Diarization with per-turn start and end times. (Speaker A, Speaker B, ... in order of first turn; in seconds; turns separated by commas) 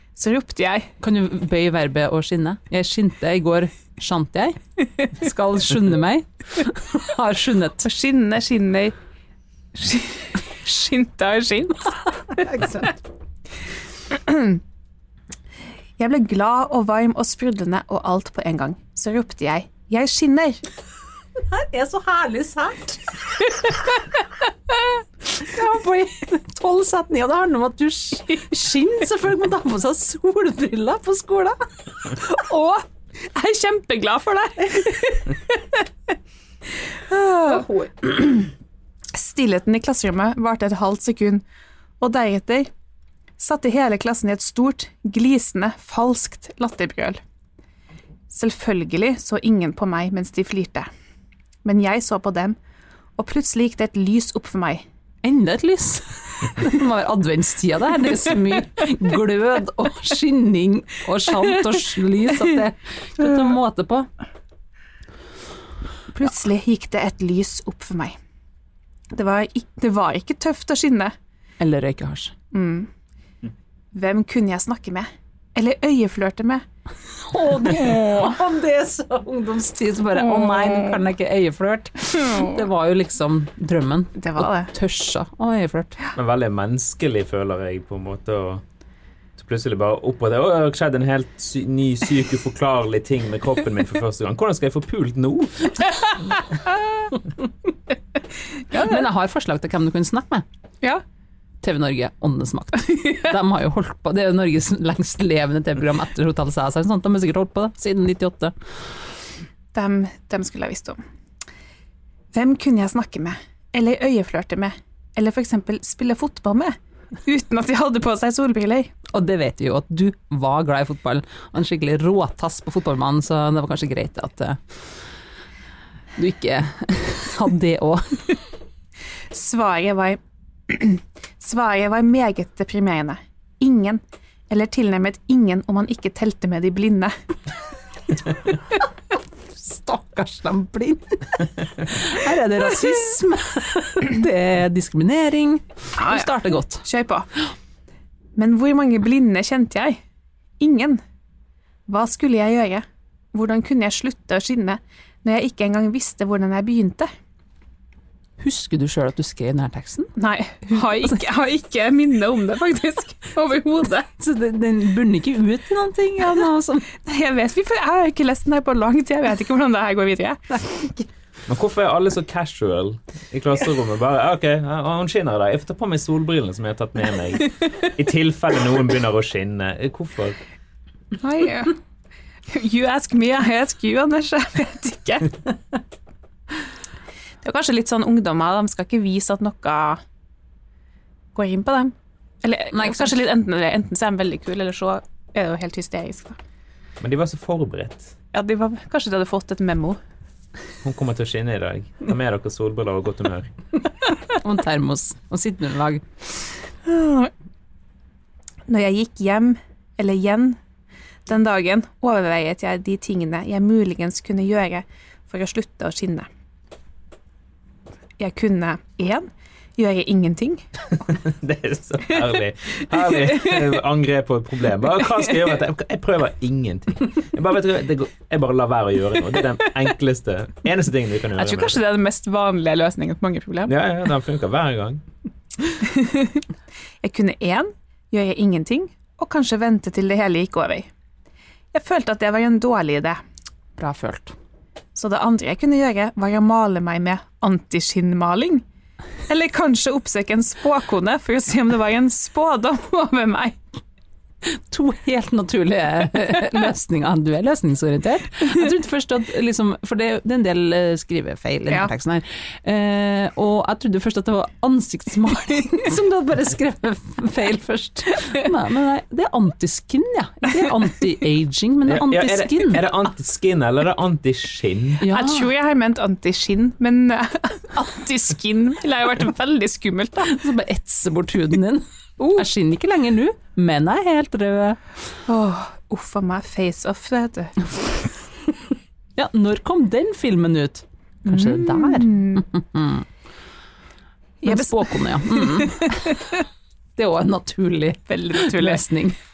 Speaker A: 0.2-0.9, Speaker B: 1.0-7.9, Speaker A: 7.8-8.9, Speaker A: 9.7-12.5, Speaker B: 12.3-13.0, Speaker A: 14.1-14.6, Speaker A: 16.0-20.6, Speaker B: 21.5-23.0, Speaker B: 25.3-32.8, Speaker A: 32.4-32.8, Speaker A: 33.3-35.9, Speaker A: 37.1-38.5, Speaker B: 37.5-38.1, Speaker A: 39.1-41.4, Speaker A: 42.0-42.7, Speaker A: 43.4-47.2, Speaker A: 48.3-50.9, Speaker A: 51.6-52.6, Speaker A: 53.2-54.9, Speaker B: 55.2-64.1, Speaker A: 66.1-68.2, Speaker A: 69.1-71.1, Speaker B: 71.6-72.3, Speaker A: 72.5-72.9, Speaker A: 73.9-76.6, Speaker B: 77.2-86.0, Speaker A: 80.3-81.0, Speaker A: 84.2-84.7, Speaker C: 86.2-88.6, Speaker C: 89.4-95.8, Speaker B: 98.7-100.5, Speaker B: 101.6-108.5, Speaker A: 109.7-111.0, Speaker A: 112.3-118.9, Speaker B: 119.1-124.6, Speaker B: 126.2-128.3, Speaker A: 129.3-137.1, Speaker B: 139.6-146.8, Speaker A: 146.0-147.3, Speaker A: 148.4-150.0, Speaker A: 150.6-151.0, Speaker A: 151.9-157.1, Speaker B: 158.4-160.2, Speaker A: 160.2-164.1, Speaker B: 160.7-161.2, Speaker B: 164.2-166.9, Speaker A: 167.0-171.0, Speaker C: 171.5-180.4, Speaker A: 181.2-181.8, Speaker A: 182.5-185.4, Speaker A: 187.4-190.0, Speaker A: 191.3-196.4, Speaker B: 192.7-193.2, Speaker C: 197.0-198.2, Speaker A: 198.3-200.0, Speaker C: 200.8-203.5, Speaker B: 204.3-206.1, Speaker A: 206.8-207.3, Speaker A: 208.7-210.6, Speaker A: 211.3-216.3, Speaker A: 218.2-220.6, Speaker C: 221.0-231.8, Speaker A: 223.3-223.7, Speaker A: 231.4-233.7, Speaker C: 233.7-235.0, Speaker A: 235.8-236.4, Speaker A: 237.0-240.9, Speaker A: 241.7-243.2, Speaker B: 243.8-244.3, Speaker A: 245.0-248.6, Speaker A: 249.3-253.6, Speaker B: 254.4-272.9, Speaker C: 271.9-275.0, Speaker B: 275.0-275.5, Speaker A: 275.1-280.3, Speaker B: 280.3-284.8, Speaker A: 282.2-282.4, Speaker A: 285.3-287.8, Speaker B: 289.2-293.1, Speaker A: 291.3-292.4, Speaker A: 294.4-296.1, Speaker B: 294.4-296.4, Speaker B: 297.0-299.2, Speaker A: 298.1-298.8